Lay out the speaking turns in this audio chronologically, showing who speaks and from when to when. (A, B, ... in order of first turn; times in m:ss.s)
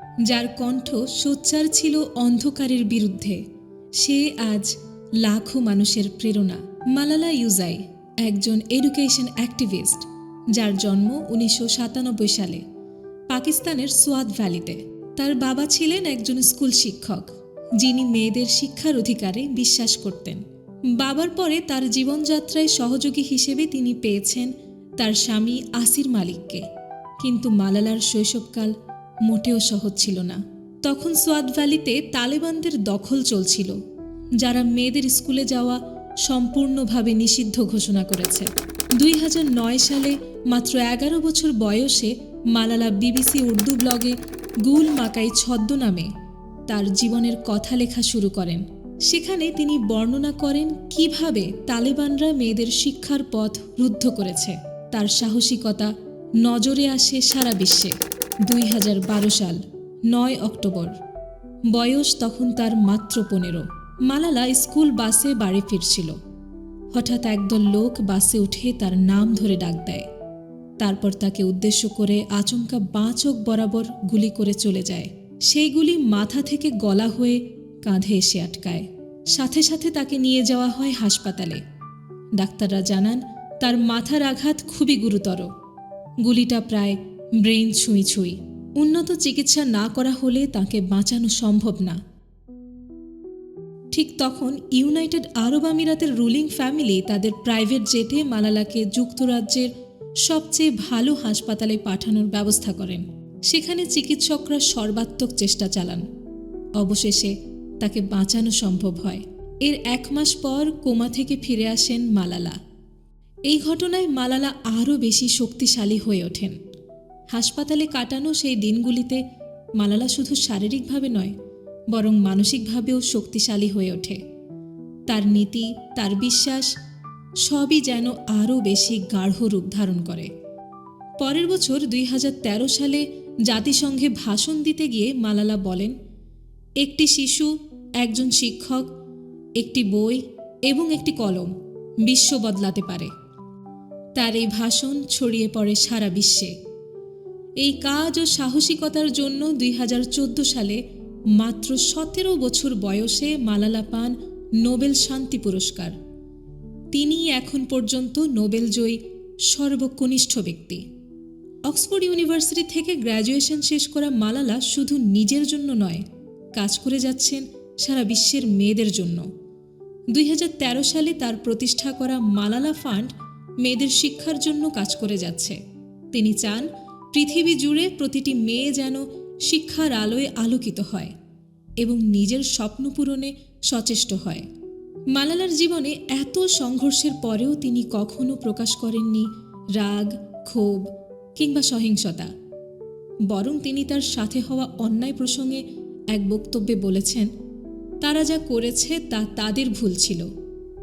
0:00.2-0:03.4 A
0:04.0-0:12.6 A
0:13.3-0:20.4 A
0:20.9-0:26.7 A
0:27.2-0:33.8 A
0:34.4-0:46.1 A
0:46.7-1:01.0 A
1:01.7-1:06.2 A
1:06.9-1:10.1 A
1:10.8-1:21.6 A
1:22.4-1:25.5 A
1:26.2-1:32.0 A
1:33.9-1:39.7 A
1:40.2-1:46.1 A
1:46.8-1:52.6 A
1:53.5-1:56.6 A
1:57.3-1:59.2 A
1:59.8-2:01.3 A
2:01.9-2:04.2 A
2:05.1-2:06.7 A
2:07.4-2:10.3 A
2:11.2-2:16.0 A
2:16.8-2:18.9 A
2:19.6-2:23.1 A
2:24.2-2:26.6 A
2:27.6-2:30.8 A
2:31.3-2:36.0 A
2:36.9-2:40.8 A
2:41.7-2:46.0 A
2:46.6-2:49.3 A
2:50.1-2:55.6 A
2:56.1-3:01.1 A
3:01.8-3:04.5 A
3:05.1-3:12.3 A
3:13.3-3:17.3 A
3:18.0-3:20.3 A